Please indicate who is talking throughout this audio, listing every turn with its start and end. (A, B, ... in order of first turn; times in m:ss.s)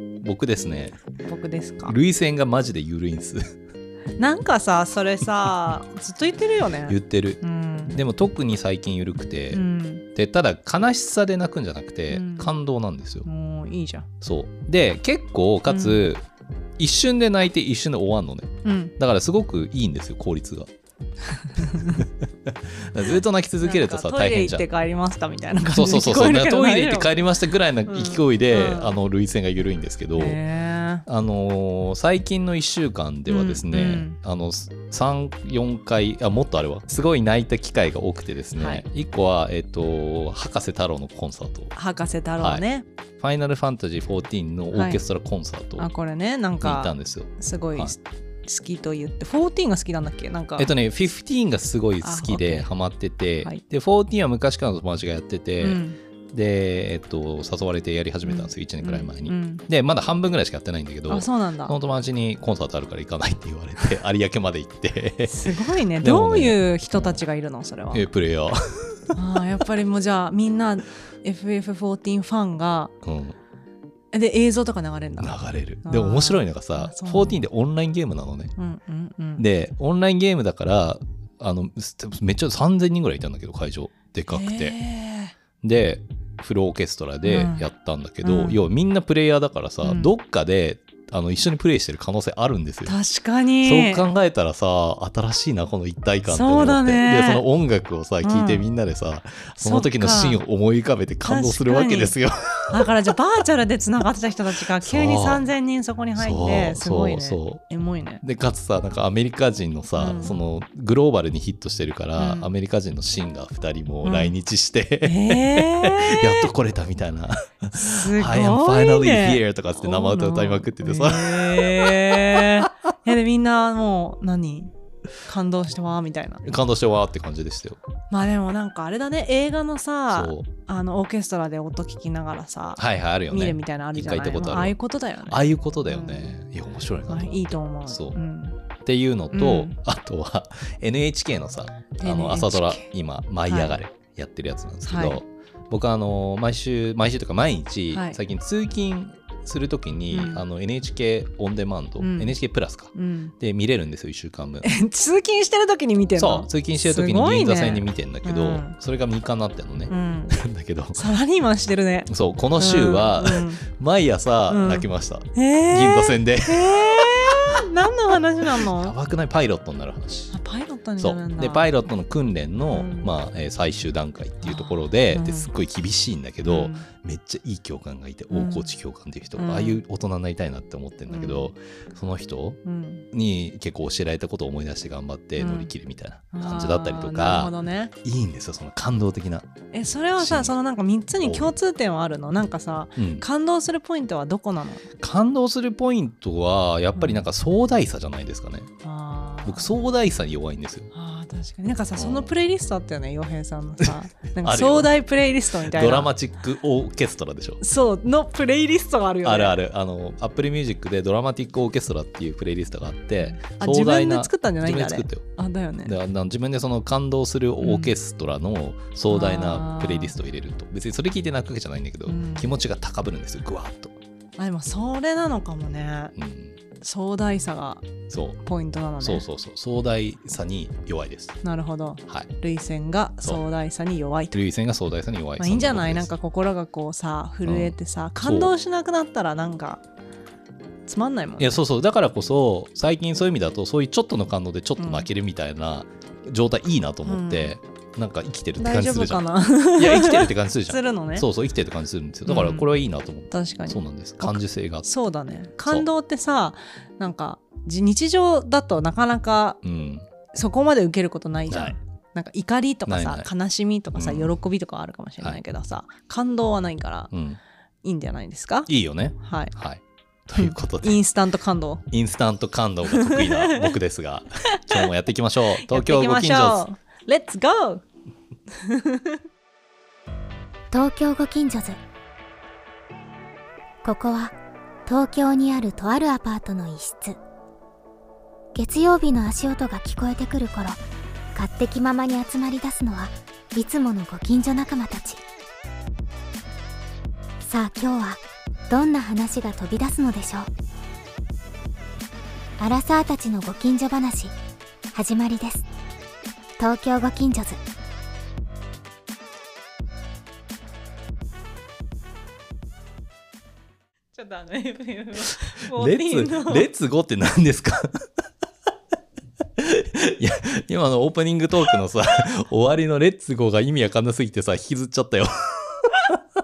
0:00.2-0:01.0 A
0:01.2-0:02.0 B
0:01.9-0:03.5 A
0:04.2-0:08.0 B
0:06.9-0:07.4 A
0:07.9-0:13.2 A
0:09.5-0:10.0 B
0:12.1-0:12.5 B
0:13.2-0:14.1 B
0:14.2-0:16.2 A
0:15.7-0:16.0 B
0:16.8-0:20.7 A
0:18.6-0:18.9 B
0:21.5-0:22.0 B
0:21.6-0:24.6 A
0:23.6-0:27.1 B
0:25.7-0:30.4 A
0:27.9-0:29.0 B
0:30.2-0:31.0 B
0:31.0-0:41.7 A
0:33.3-0:34.2 B
0:38.6-0:38.8 B
0:41.7-0:42.8 B
0:42.4-0:42.6 A
0:43.2-0:45.9 A
0:44.7-0:45.0 B
0:45.8-0:50.7 B
0:46.6-0:47.9 A
0:50.6-1:07.1 A
0:52.0-0:52.7 B
0:55.6-0:56.0 B
0:58.2-0:59.6 B
1:01.1-1:01.8 B
1:05.3-1:08.0 B
1:07.9-1:09.2 A
1:09.1-1:12.9 B
1:13.0-1:13.4 A
1:14.1-1:17.4 B
1:15.2-1:18.5 A
1:18.6-1:19.4 B
1:19.4-1:24.8 A
1:24.3-1:25.3 B
1:25.6-1:33.0 A
1:27.2-1:27.6 B
1:28.2-1:28.6 B
1:29.8-1:30.1 B
1:32.8-1:34.0 B
1:33.6-1:42.9 A
1:36.3-1:37.4 B
1:38.2-1:38.6 B
1:39.6-1:40.4 B
1:41.2-1:42.1 B
1:42.7-1:48.2 B
1:44.8-1:45.4 A
1:46.2-1:47.6 A
1:48.2-2:02.7 A
1:50.0-1:50.3 B
1:52.2-1:52.5 B
1:54.0-1:54.3 B
1:55.0-1:56.5 B
1:57.7-2:04.7 B
2:05.2-2:06.6 B
2:06.4-2:07.8 A
2:08.1-2:16.3 B
2:10.1-2:10.5 A
2:12.8-2:18.2 A
2:17.1-2:18.6 B
2:18.8-2:34.7 A
2:19.3-2:19.8 B
2:22.0-2:22.9 B
2:23.5-2:23.8 B
2:24.8-2:25.2 B
2:27.9-2:28.2 B
2:30.1-2:30.4 B
2:32.0-2:32.4 B
2:32.9-2:33.3 B
2:34.6-2:38.8 B
2:36.2-2:41.0 A
2:39.9-2:40.4 B
2:40.9-2:43.6 B
2:42.1-2:47.6 A
2:44.5-2:48.9 B
2:48.4-2:50.4 A
2:50.3-2:51.7 B
2:51.0-3:02.6 A
2:52.7-2:53.1 B
2:54.4-2:55.5 B
2:56.4-2:56.9 B
2:58.3-2:58.7 B
2:59.4-2:59.8 B
3:01.1-3:01.5 B
3:02.6-3:03.0 B
3:03.1-3:09.5 A
3:05.4-3:05.7 B
3:06.3-3:07.9 B
3:09.7-3:14.9 B
3:10.2-3:10.5 A
3:11.2-3:11.5 A
3:13.0-3:13.2 A
3:15.0-3:18.7 A
3:17.0-3:17.2 B
3:18.8-3:19.7 B
3:19.4-3:20.9 A
3:20.9-3:26.1 B
3:22.0-3:22.3 A
3:23.8-3:24.9 A
3:25.6-3:27.6 A
3:27.6-3:29.6 B
3:29.2-3:35.3 A
3:33.3-3:35.9 B
3:35.8-3:44.0 A
3:37.6-3:37.9 B
3:39.1-3:40.2 B
3:42.1-3:42.5 B
3:44.4-3:46.1 B
3:46.1-3:46.6 A
3:46.8-3:47.9 B
3:48.1-3:48.4 A
3:48.4-3:49.2 B
3:49.0-3:51.4 A
3:51.4-3:54.4 B
3:54.3-3:56.1 A
3:55.4-3:59.8 B
3:57.4-3:58.5 A
4:00.9-4:01.5 B
4:01.4-4:09.2 A
4:04.8-4:05.1 B
4:07.0-4:07.5 B
4:08.6-4:11.2 B
4:09.7-4:14.9 A
4:12.2-4:12.7 B
4:13.3-4:19.6 B
4:19.6-4:20.1 A
4:20.3-4:27.1 B
4:21.5-4:21.8 A
4:22.9-4:23.3 A
4:23.9-4:24.4 A
4:27.1-4:27.4 A
4:27.8-4:29.5 B
4:28.7-4:31.0 A
4:30.3-4:31.8 B
4:31.9-4:36.6 A
4:32.9-4:33.7 B
4:34.6-4:34.8 B
4:35.6-4:37.8 B
4:38.6-4:39.2 B
4:40.7-4:41.8 C
4:43.8-4:47.2 C
4:48.5-4:50.8 C
4:51.3-4:55.2 C
4:57.4-5:00.5 C
5:02.6-5:04.3 C
5:04.9-5:05.6 C
5:06.6-5:07.6 C
5:14.1-5:16.7 B
5:15.7-5:18.0 A
5:19.6-5:26.2 A